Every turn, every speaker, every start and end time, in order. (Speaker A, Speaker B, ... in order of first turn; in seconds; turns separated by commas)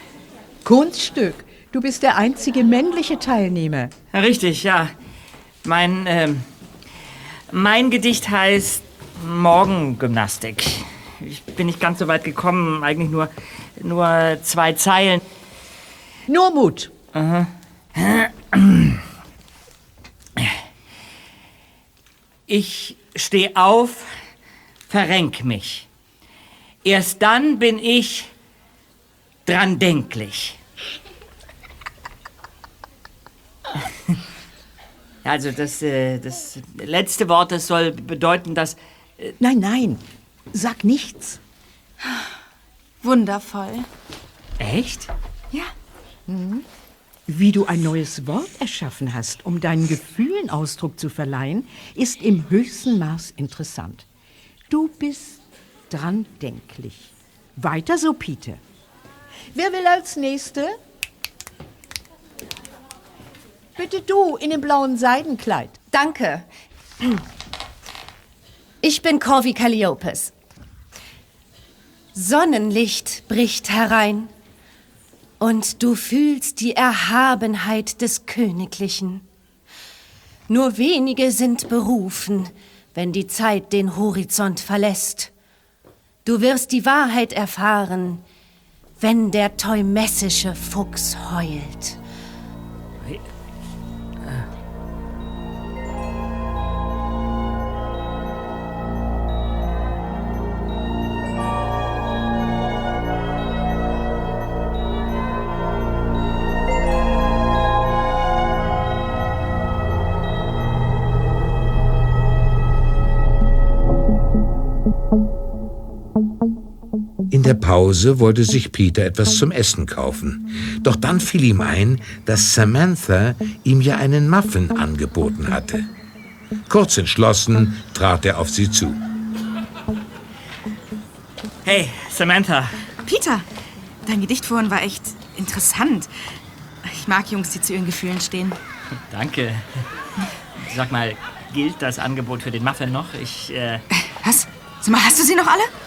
Speaker A: 0.6-3.9, Speaker B: 4.1-4.9, Speaker B: 5.6-6.5, Speaker B: 7.5-15.2, Speaker A: 16.3-16.9, Speaker B: 17.1-19.0, Speaker B: 22.5-24.1, Speaker B: 24.9-25.9, Speaker B: 26.8-28.3, Speaker B: 29.4-30.6, Speaker B: 35.2-39.3, Speaker A: 39.4-41.4, Speaker C: 43.0-43.9, Speaker B: 44.6-45.1, Speaker A: 46.3-46.6, Speaker A: 47.3-54.0, Speaker A: 54.7-58.6, Speaker A: 59.5-60.7, Speaker A: 63.8-65.8, Speaker D: 65.9-66.5, Speaker D: 68.8-70.3, Speaker D: 72.1-74.3, Speaker D: 75.4-79.2, Speaker D: 80.5-85.3, Speaker D: 86.2-88.2, Speaker D: 89.0-92.0, Speaker E: 117.3-125.9, Speaker E: 126.7-129.0, Speaker B: 131.6-132.8, Speaker C: 133.1-133.4, Speaker C: 134.1-136.1, Speaker C: 136.8-138.6, Speaker B: 139.1-139.8, Speaker B: 140.6-143.8, Speaker C: 144.1-145.7